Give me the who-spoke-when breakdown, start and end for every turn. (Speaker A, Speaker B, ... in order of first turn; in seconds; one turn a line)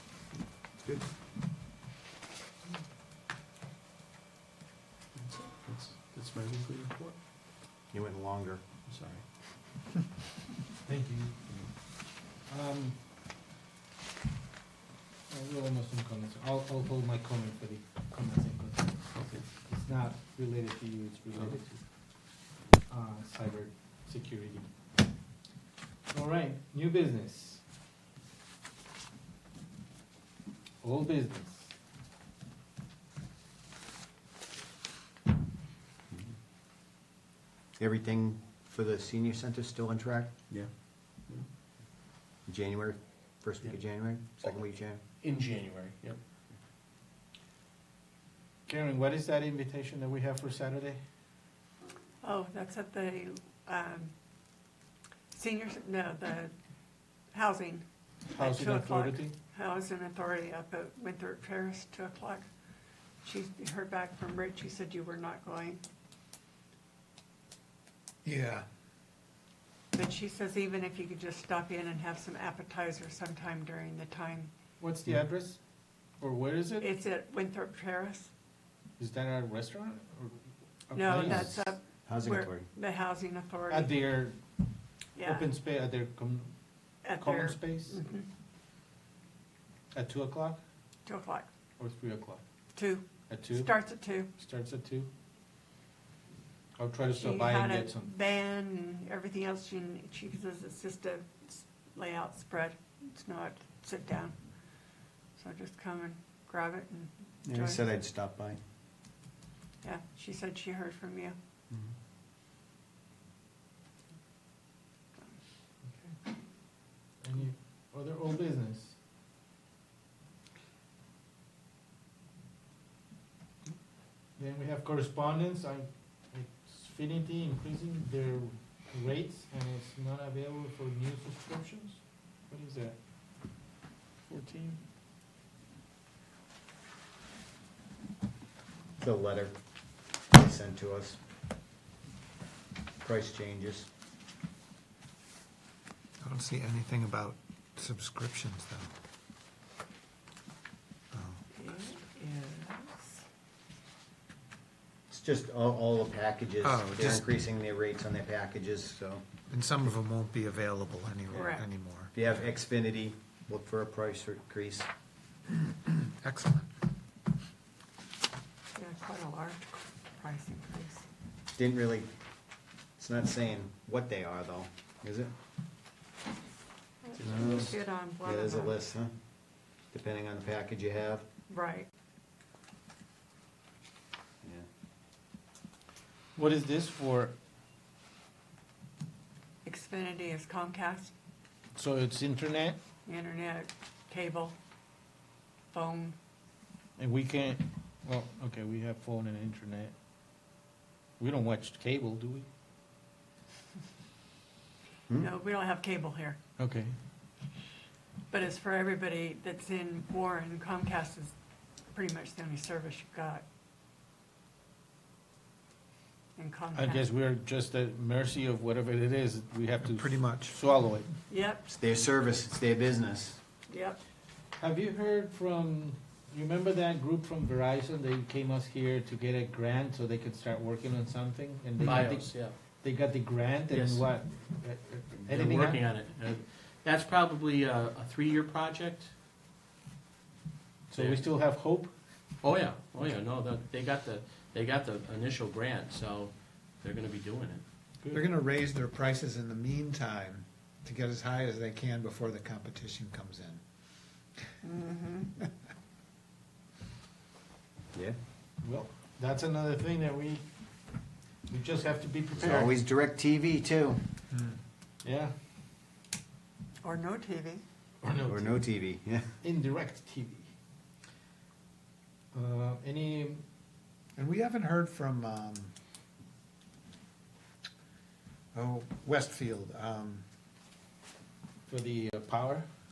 Speaker A: 5.1-7.2
Speaker B: 7.9-8.6
Speaker A: 8.8-9.5
Speaker C: 10.8-11.8
Speaker C: 12.4-13.1
Speaker C: 15.3-22.3
Speaker A: 19.1-19.4
Speaker C: 22.9-24.7
Speaker C: 26.1-27.6
Speaker C: 30.8-31.7
Speaker B: 37.8-40.3
Speaker A: 40.5-41.5
Speaker B: 42.5-45.0
Speaker A: 45.1-46.2
Speaker C: 48.6-51.0
Speaker D: 52.2-54.1
Speaker D: 55.3-56.5
Speaker D: 57.3-57.8
Speaker C: 58.3-59.3
Speaker D: 58.3-62.4
Speaker D: 63.2-65.8
Speaker E: 68.2-68.6
Speaker D: 69.9-74.5
Speaker C: 74.8-75.6
Speaker C: 76.2-76.9
Speaker D: 76.8-78.3
Speaker C: 79.0-81.5
Speaker D: 80.9-83.9
Speaker B: 81.2-82.7
Speaker C: 83.7-84.4
Speaker D: 85.1-85.5
Speaker C: 85.2-86.5
Speaker D: 87.0-88.3
Speaker C: 87.2-88.0
Speaker C: 89.9-90.6
Speaker D: 91.0-91.5
Speaker C: 91.8-92.4
Speaker D: 92.7-94.3
Speaker C: 93.3-93.7
Speaker C: 94.3-95.1
Speaker C: 96.8-98.1
Speaker D: 97.1-104.4
Speaker D: 105.3-107.8
Speaker B: 107.5-108.6
Speaker D: 109.8-111.3
Speaker C: 115.8-116.2
Speaker C: 117.2-119.0
Speaker C: 124.4-133.0
Speaker C: 134.3-134.8
Speaker B: 139.0-139.6
Speaker B: 140.3-141.2
Speaker B: 143.0-143.9
Speaker E: 146.2-148.9
Speaker E: 151.1-151.4
Speaker D: 151.5-153.2
Speaker B: 155.1-159.2
Speaker E: 156.6-157.3
Speaker E: 159.5-162.1
Speaker D: 161.3-161.6
Speaker B: 162.1-164.9
Speaker E: 165.9-166.7
Speaker D: 168.7-171.1
Speaker B: 171.5-172.1
Speaker B: 173.0-175.3
Speaker D: 177.0-178.7
Speaker A: 177.2-177.7
Speaker B: 177.2-179.2
Speaker B: 179.9-181.3
Speaker D: 181.5-181.9
Speaker C: 186.3-187.3
Speaker D: 189.6-191.1
Speaker C: 191.7-192.8
Speaker D: 193.1-194.6
Speaker D: 195.7-196.2
Speaker C: 197.0-199.9
Speaker C: 201.2-202.5
Speaker D: 205.2-206.4
Speaker C: 206.6-206.9
Speaker D: 208.3-211.3
Speaker D: 211.9-213.4
Speaker D: 216.3-217.1
Speaker C: 216.7-221.1
Speaker E: 219.8-220.6
Speaker D: 221.3-221.7
Speaker B: 221.7-223.4
Speaker D: 223.7-224.0
Speaker C: 224.5-235.8
Speaker A: 231.8-232.6
Speaker A: 233.7-234.0
Speaker A: 235.2-239.1
Speaker C: 240.9-241.9
Speaker A: 240.9-241.2
Speaker A: 242.4-247.6
Speaker E: 248.1-253.6
Speaker D: 254.6-255.3
Speaker C: 258.6-260.5
Speaker C: 261.5-262.7
Speaker B: 262.3-264.1
Speaker E: 264.3-264.6
Speaker C: 265.0-265.3
Speaker D: 266.8-267.6
Speaker C: 268.0-268.6
Speaker B: 268.3-269.3
Speaker C: 269.4-270.5
Speaker C: 272.3-273.4
Speaker E: 274.1-275.7
Speaker E: 278.5-280.2
Speaker C: 281.7-282.7